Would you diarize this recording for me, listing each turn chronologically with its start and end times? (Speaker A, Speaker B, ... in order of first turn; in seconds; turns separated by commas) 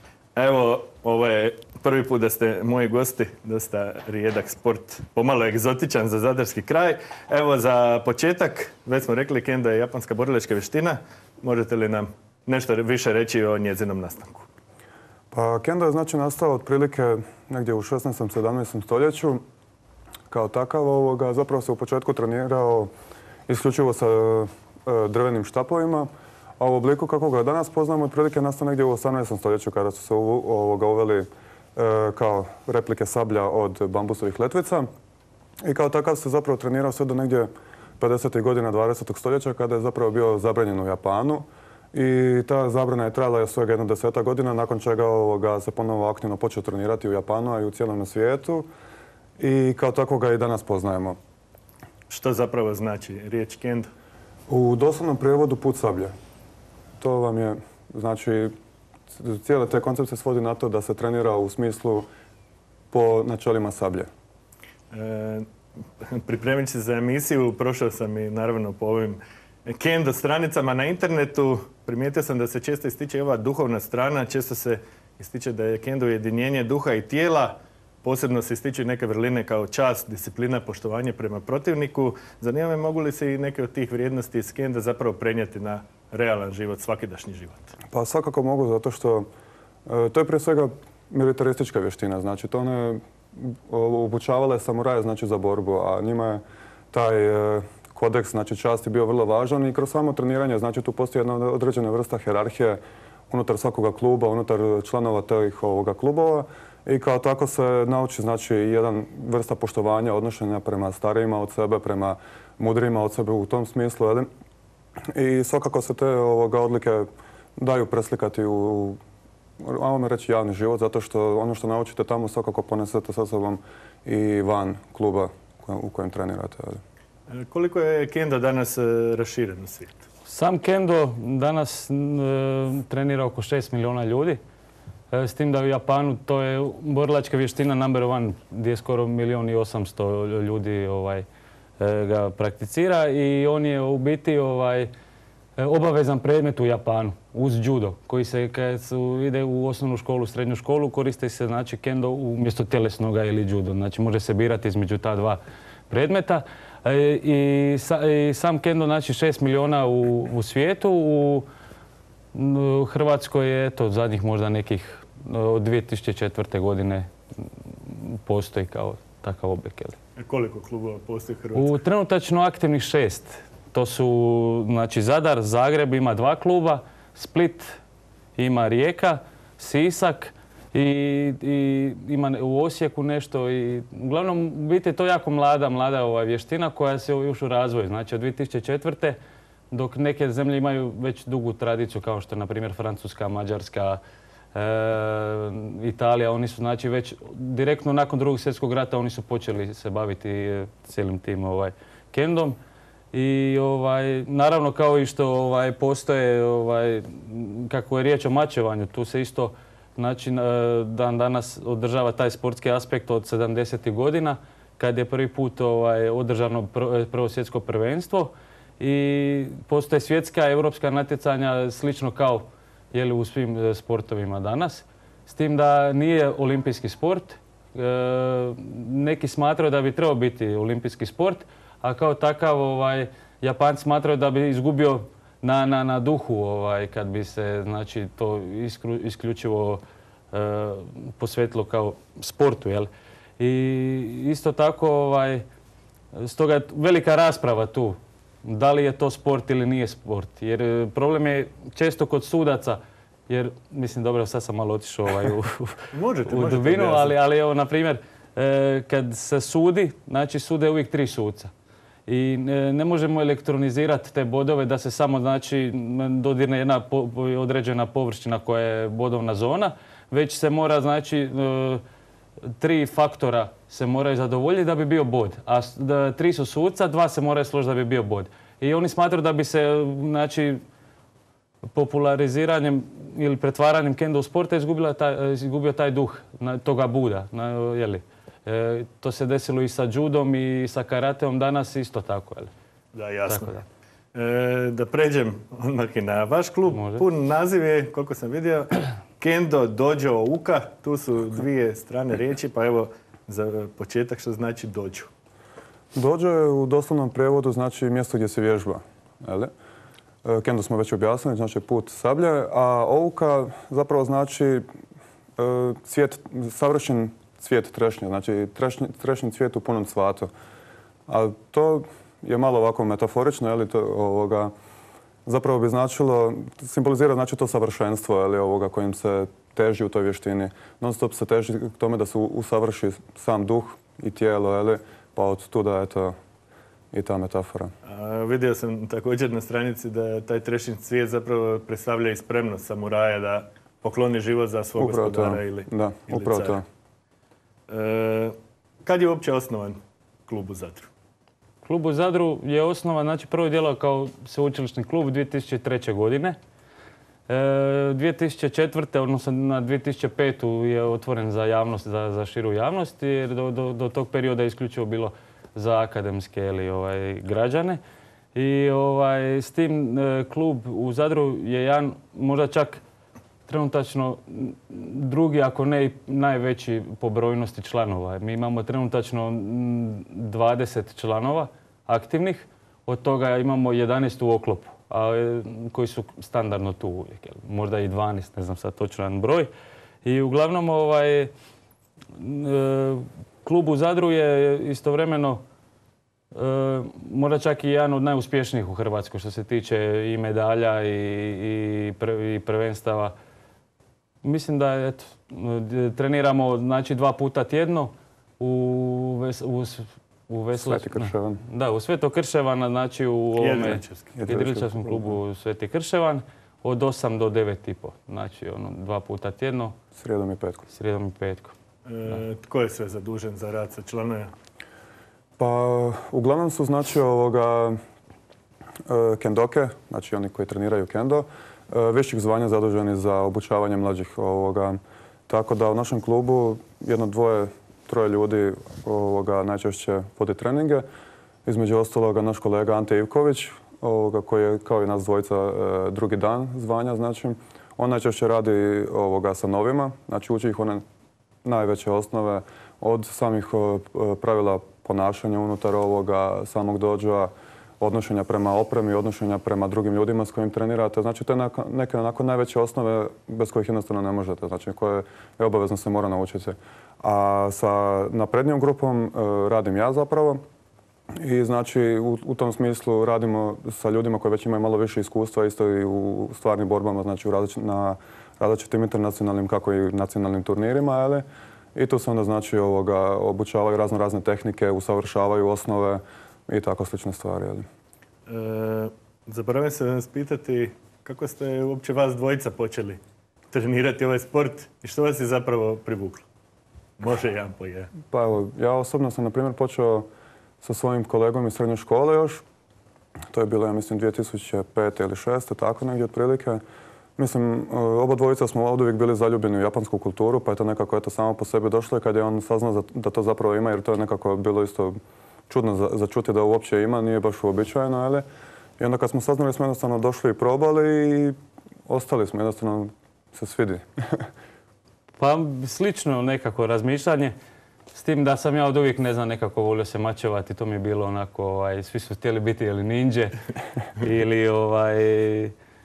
Speaker A: 0.3-14.4, Speaker B: 15.3-19.4, Speaker B: 20.3-22.9, Speaker B: 23.5-26.1, Speaker B: 26.6-34.9, Speaker B: 35.6-37.5, Speaker B: 38.0-48.7, Speaker B: 49.4-51.2, Speaker A: 52.1-53.9, Speaker B: 54.5-56.1, Speaker B: 57.0-58.5, Speaker B: 59.1-62.1, Speaker B: 62.9-64.1, Speaker A: 64.9-65.5, Speaker A: 66.0-87.7, Speaker B: 87.9-89.3, Speaker B: 89.8-114.3, Speaker B: 115.1-119.0, Speaker B: 119.6-126.8, Speaker A: 127.3-130.0, Speaker C: 130.2-134.4, Speaker C: 135.1-141.2, Speaker C: 141.8-144.9, Speaker C: 145.6-161.4, Speaker C: 162.3-167.1, Speaker C: 167.6-170.0, Speaker A: 170.2-171.8, Speaker C: 171.5-177.8, Speaker C: 178.3-189.2, Speaker C: 189.7-194.0, Speaker C: 194.5-202.6, Speaker C: 203.1-239.8, Speaker C: 240.3-245.4, Speaker C: 246.1-261.5, Speaker A: 255.9-257.1, Speaker C: 262.1-271.8, Speaker C: 272.6-280.6, Speaker C: 281.7-292.5, Speaker A: 292.9-293.5, Speaker C: 293.3-293.6, Speaker A: 294.1-305.1, Speaker C: 296.7-297.0, Speaker B: 305.9-309.5, Speaker B: 310.2-314.6, Speaker B: 315.4-320.3, Speaker B: 321.1-324.5, Speaker B: 325.2-336.1, Speaker B: 336.9-337.7, Speaker A: 337.8-346.6, Speaker B: 344.8-346.6, Speaker A: 347.7-350.9, Speaker C: 351.6-356.4, Speaker C: 357.3-367.8, Speaker C: 368.3-372.8, Speaker C: 373.5-389.5, Speaker C: 390.0-391.3, Speaker C: 392.1-395.4, Speaker C: 396.3-403.1, Speaker C: 404.2-419.7, Speaker B: 410.6-411.4, Speaker A: 413.4-414.1, Speaker B: 414.1-415.1, Speaker B: 420.0-420.6, Speaker C: 420.7-421.5, Speaker A: 421.9-424.3, Speaker B: 425.4-427.8, Speaker B: 428.9-440.9, Speaker B: 441.4-450.8, Speaker B: 451.4-470.4, Speaker B: 471.2-487.6, Speaker A: 488.2-493.0, Speaker A: 493.5-496.2, Speaker A: 497.0-497.9, Speaker B: 498.1-500.1, Speaker B: 500.6-502.4, Speaker B: 503.3-506.6, Speaker B: 507.2-515.0, Speaker B: 515.5-518.2, Speaker B: 518.8-521.4, Speaker B: 521.9-524.3, Speaker C: 525.2-527.3, Speaker C: 527.9-533.4, Speaker C: 533.9-535.5